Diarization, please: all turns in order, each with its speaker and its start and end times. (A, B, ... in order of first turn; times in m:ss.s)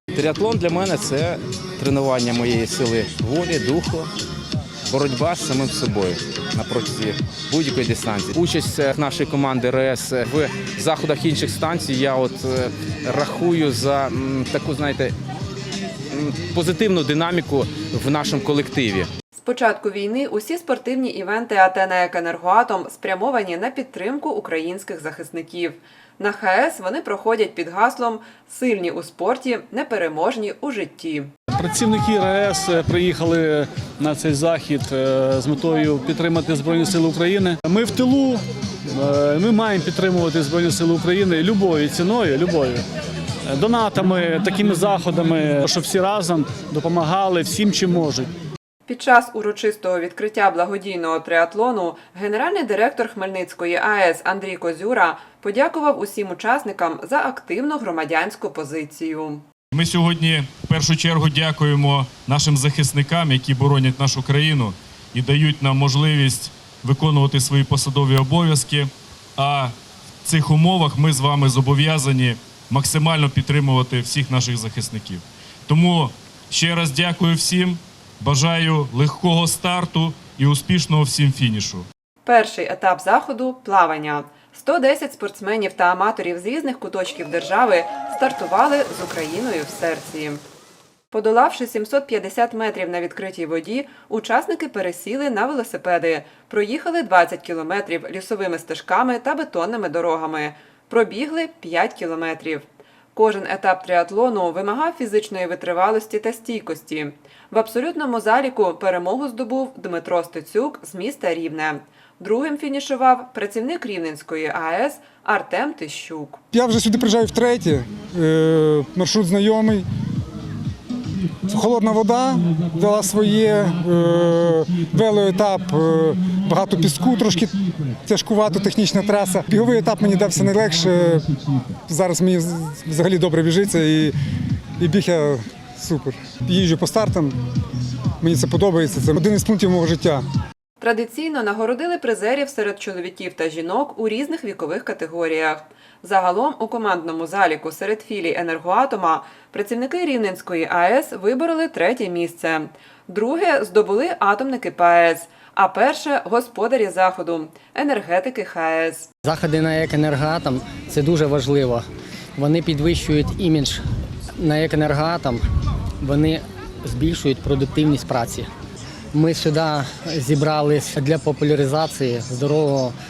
0:00.1-0:04.1 A
0:04.9-0:15.1 A
0:16.1-0:19.1 A
0:19.4-0:31.3 B
0:31.5-0:42.8 C
0:43.5-0:48.3 C
0:48.9-0:59.4 B
0:59.7-1:09.7 D
1:10.2-1:21.8 D
1:22.2-1:30.4 B
1:31.1-1:56.4 B
1:56.5-1:59.8 E
2:01.4-2:14.1 E
2:14.8-2:17.3 E
2:18.2-2:20.2 E
2:20.8-2:39.1 B
2:39.2-2:41.8 F
2:42.4-2:43.8 F
2:44.4-2:45.4 F
2:46.0-2:48.5 F
2:49.1-2:53.0 F